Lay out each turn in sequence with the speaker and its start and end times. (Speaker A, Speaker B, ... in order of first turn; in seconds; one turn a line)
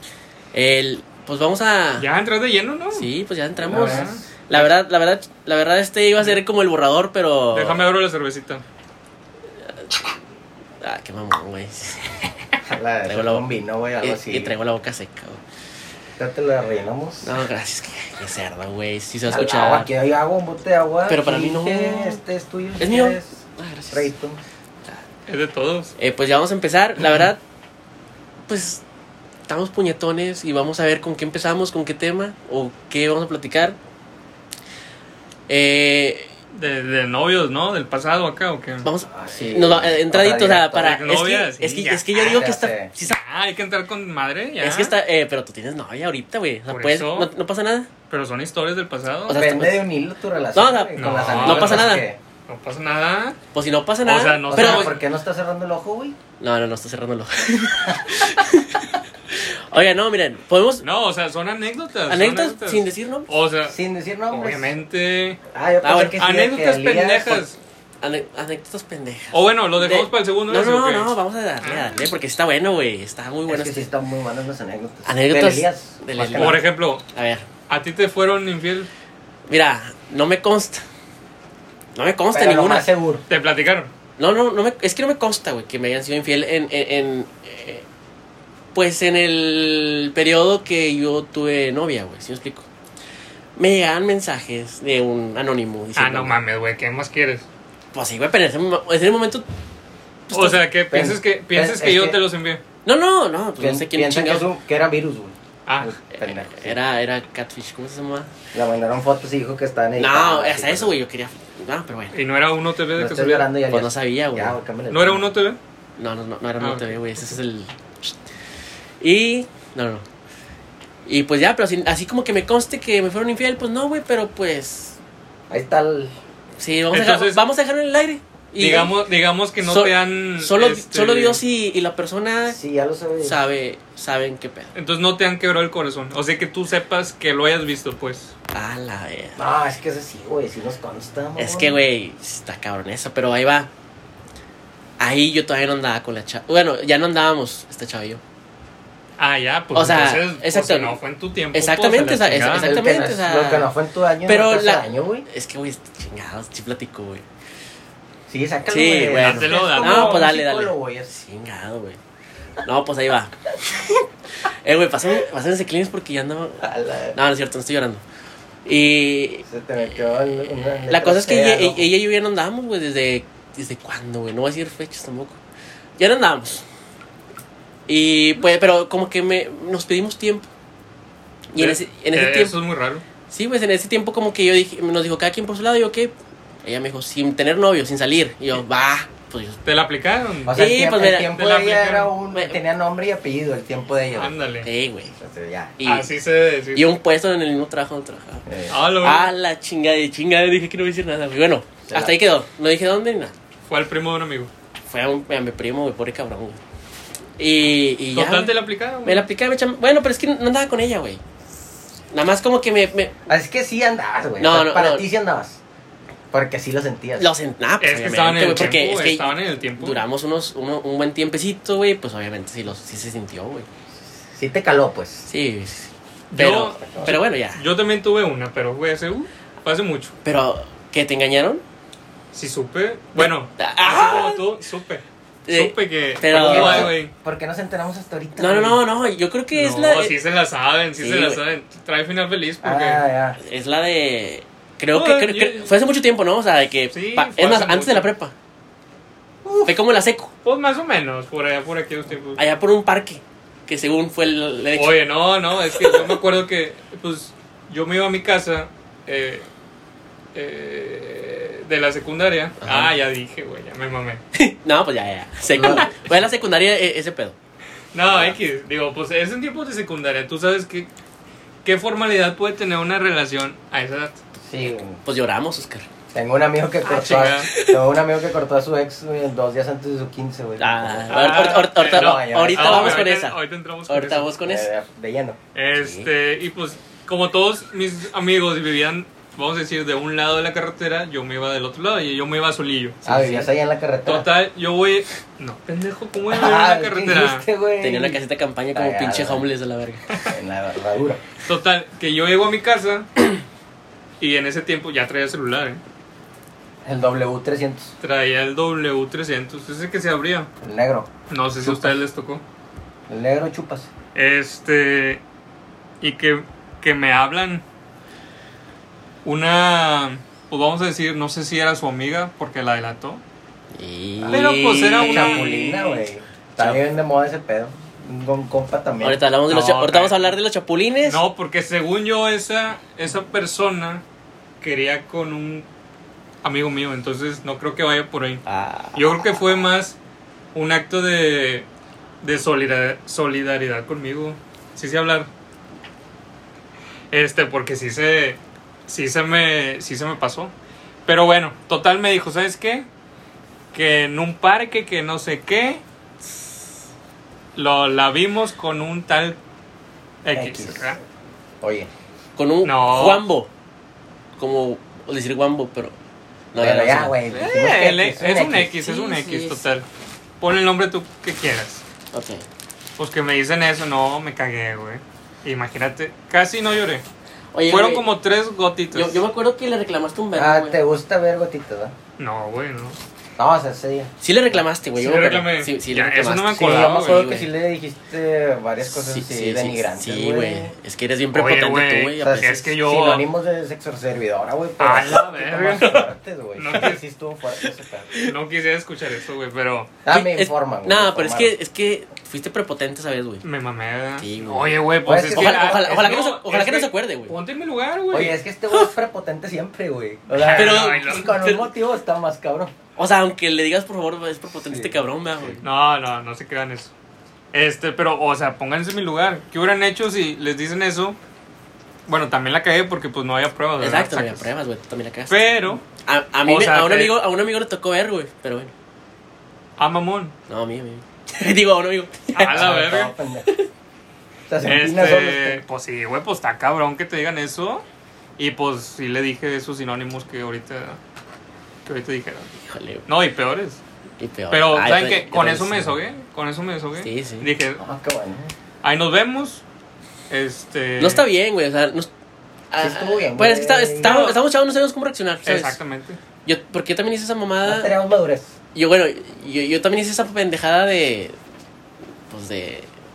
Speaker A: 0.5-2.1
Speaker B: 2.0-3.1
Speaker A: 2.9-7.8
Speaker C: 3.6-4.2
Speaker B: 3.7-4.7
Speaker B: 7.5-8.6
Speaker A: 10.8-12.2
Speaker C: 12.7-14.5
Speaker A: 13.1-13.5
Speaker A: 14.0-15.4
Speaker C: 16.2-17.3
Speaker A: 17.2-19.9
Speaker C: 19.3-24.4
Speaker A: 21.1-22.2
Speaker A: 22.8-24.1
Speaker B: 25.3-25.9
Speaker A: 26.0-27.4
Speaker A: 28.5-28.8
Speaker A: 29.5-33.8
Speaker A: 35.5-36.3
Speaker B: 36.5-38.9
Speaker A: 38.8-43.2
Speaker C: 39.1-41.0
Speaker B: 40.8-42.4
Speaker C: 42.2-42.9
Speaker B: 43.0-45.0
Speaker A: 44.6-47.9
Speaker B: 46.7-47.3
Speaker B: 48.1-49.4
Speaker A: 49.3-49.8
Speaker C: 49.3-52.2
Speaker A: 50.5-52.0
Speaker B: 51.0-53.4
Speaker A: 53.5-54.9
Speaker B: 54.0-55.0
Speaker C: 54.5-56.2
Speaker A: 56.4-60.9
Speaker B: 60.8-63.8
Speaker A: 62.1-63.3
Speaker C: 63.7-64.7
Speaker B: 64.3-65.4
Speaker C: 65.5-67.4
Speaker A: 65.8-66.2
Speaker B: 66.2-67.6
Speaker A: 68.0-73.8
Speaker B: 69.3-72.1
Speaker C: 73.5-76.6
Speaker A: 75.0-77.5
Speaker B: 76.4-77.0
Speaker B: 77.7-78.9
Speaker A: 79.5-80.8
Speaker A: 82.0-82.8
Speaker C: 82.3-83.2
Speaker B: 83.3-83.9
Speaker A: 84.2-87.8
Speaker A: 88.7-92.7
Speaker A: 93.5-96.4
Speaker B: 96.0-97.5
Speaker A: 97.9-99.5
Speaker C: 100.3-102.2
Speaker B: 100.3-102.6
Speaker A: 102.8-104.5
Speaker C: 103.6-106.8
Speaker B: 105.7-105.9
Speaker A: 106.1-108.3
Speaker C: 108.5-110.9
Speaker A: 110.0-112.2
Speaker B: 112.1-113.5
Speaker C: 113.0-115.3
Speaker A: 113.7-114.6
Speaker B: 114.9-115.6
Speaker A: 116.0-118.2
Speaker B: 116.6-117.3
Speaker A: 119.0-120.0
Speaker A: 121.0-125.0
Speaker C: 125.5-126.1
Speaker A: 126.6-128.9
Speaker B: 126.9-127.4
Speaker B: 128.6-131.4
Speaker A: 129.6-132.6
Speaker C: 132.5-133.4
Speaker A: 133.2-134.7
Speaker B: 134.7-138.3
Speaker A: 138.5-139.4
Speaker C: 139.4-141.8
Speaker A: 141.4-143.7
Speaker A: 145.0-148.2
Speaker B: 149.2-152.8
Speaker A: 149.7-151.0
Speaker A: 151.5-153.7
Speaker C: 152.5-155.2
Speaker A: 154.2-157.2
Speaker C: 158.3-161.1
Speaker A: 158.7-162.0
Speaker B: 159.2-160.2
Speaker A: 162.6-164.1
Speaker A: 164.6-168.0
Speaker C: 166.6-167.2
Speaker A: 168.6-169.4
Speaker C: 169.4-171.9
Speaker A: 170.6-175.4
Speaker A: 176.0-176.6
Speaker A: 177.9-180.5
Speaker A: 181.5-182.6
Speaker B: 181.6-183.0
Speaker A: 183.3-189.6
Speaker B: 189.6-190.6
Speaker C: 190.4-194.3
Speaker A: 190.5-191.3
Speaker B: 191.2-192.2
Speaker B: 194.1-194.7
Speaker A: 194.6-195.1
Speaker C: 195.2-195.8
Speaker A: 195.8-196.1
Speaker B: 195.8-196.9
Speaker A: 196.7-198.4
Speaker C: 198.5-198.8
Speaker B: 198.7-199.3
Speaker A: 199.0-203.3
Speaker C: 201.9-202.2
Speaker B: 203.7-204.5
Speaker A: 204.9-206.6
Speaker A: 207.4-211.2
Speaker B: 208.1-209.2
Speaker A: 212.1-213.1
Speaker C: 213.3-215.6
Speaker A: 214.4-215.1
Speaker C: 216.3-217.3
Speaker A: 217.2-223.7
Speaker B: 217.8-220.0
Speaker C: 224.3-225.3
Speaker A: 225.3-227.6
Speaker B: 226.3-230.1
Speaker C: 226.8-227.2
Speaker A: 230.2-231.6
Speaker B: 232.3-237.1
Speaker A: 233.2-234.4
Speaker A: 235.5-236.9
Speaker C: 236.3-238.8
Speaker A: 238.4-240.2
Speaker B: 239.5-243.0
Speaker A: 241.0-241.4
Speaker C: 242.6-243.4
Speaker A: 243.4-248.3
Speaker B: 244.9-245.7
Speaker B: 246.9-248.1
Speaker C: 249.4-249.7
Speaker A: 249.7-250.3
Speaker B: 250.4-252.4
Speaker A: 252.4-255.0
Speaker B: 254.8-259.4
Speaker A: 255.7-256.1
Speaker B: 260.3-264.2
Speaker A: 262.6-262.9
Speaker A: 264.3-267.4
Speaker C: 265.5-266.0
Speaker B: 267.9-270.9
Speaker C: 268.1-268.4
Speaker B: 271.6-274.2
Speaker C: 274.4-275.0
Speaker A: 275.0-275.9
Speaker C: 276.1-283.1
Speaker B: 276.8-277.5
Speaker A: 277.1-277.8
Speaker A: 280.6-283.4
Speaker B: 281.1-284.3
Speaker A: 283.9-284.7
Speaker C: 284.4-285.4
Speaker B: 285.5-293.4
Speaker A: 285.8-286.1
Speaker C: 293.0-294.3
Speaker A: 293.1-293.3
Speaker B: 294.1-297.4
Speaker C: 296.3-298.2
Speaker A: 297.8-300.2
Speaker C: 298.7-299.4
Speaker C: 300.3-301.2
Speaker B: 301.4-303.2
Speaker B: 304.2-305.8
Speaker C: 306.8-307.9
Speaker B: 308.0-310.5
Speaker C: 310.6-311.1
Speaker B: 311.3-312.4
Speaker C: 311.6-312.0
Speaker C: 313.1-313.9
Speaker B: 314.1-315.2
Speaker B: 316.0-317.6
Speaker B: 319.2-323.2
Speaker A: 323.7-325.5
Speaker C: 324.2-329.2
Speaker B: 324.3-326.1
Speaker A: 329.0-331.2
Speaker B: 329.5-330.3
Speaker B: 331.0-334.0
Speaker B: 334.6-335.6
Speaker B: 336.4-338.4
Speaker A: 338.4-339.2
Speaker B: 338.9-339.9
Speaker B: 340.5-341.6
Speaker B: 342.2-345.3
Speaker B: 347.1-350.5
Speaker B: 351.1-352.9
Speaker B: 353.7-355.8
Speaker B: 357.6-359.4
Speaker B: 360.2-361.0
Speaker C: 360.3-360.9
Speaker C: 361.6-361.9
Speaker A: 362.4-363.5
Speaker B: 362.6-363.2
Speaker A: 364.4-365.9
Speaker A: 366.5-367.2
Speaker C: 366.6-368.7
Speaker B: 367.3-369.9
Speaker A: 368.8-369.6
Speaker B: 370.4-371.8
Speaker A: 372.1-372.4
Speaker B: 373.0-377.0
Speaker A: 377.5-378.1
Speaker B: 377.7-379.2
Speaker A: 378.9-380.8
Speaker C: 380.3-381.9
Speaker B: 382.2-383.0
Speaker C: 383.4-384.1
Speaker A: 384.2-387.5
Speaker B: 384.9-387.2
Speaker C: 386.6-390.7
Speaker A: 388.9-392.7
Speaker B: 391.3-393.2
Speaker C: 392.2-398.1
Speaker B: 394.8-396.0
Speaker A: 395.8-396.0
Speaker B: 396.6-397.0
Speaker B: 398.2-399.9
Speaker C: 400.0-401.5
Speaker A: 400.1-403.4
Speaker B: 403.4-408.4
Speaker A: 404.2-407.3
Speaker C: 405.0-406.1
Speaker C: 408.1-412.7
Speaker B: 410.3-411.3
Speaker A: 410.5-411.7
Speaker A: 413.0-415.6
Speaker C: 414.6-415.6
Speaker B: 415.6-416.9
Speaker B: 417.5-421.2
Speaker B: 422.1-424.5
Speaker A: 423.8-425.4
Speaker B: 425.3-425.8
Speaker A: 426.0-428.7
Speaker B: 426.4-427.2
Speaker B: 429.8-430.3
Speaker A: 430.5-432.7
Speaker B: 432.3-433.1
Speaker C: 432.5-433.5
Speaker C: 434.5-435.6
Speaker B: 434.6-437.8
Speaker B: 438.4-441.0
Speaker B: 441.9-442.5
Speaker A: 442.6-443.1
Speaker B: 443.1-443.8
Speaker A: 444.2-445.9
Speaker B: 444.5-447.8
Speaker A: 447.0-447.5
Speaker C: 447.8-448.5
Speaker B: 448.8-449.6
Speaker B: 450.3-451.2
Speaker A: 451.0-452.1
Speaker A: 452.7-455.8
Speaker C: 452.8-454.2
Speaker B: 454.0-454.4
Speaker B: 455.4-456.2
Speaker A: 456.4-457.9
Speaker C: 457.6-458.5
Speaker A: 458.7-461.4
Speaker A: 462.3-462.9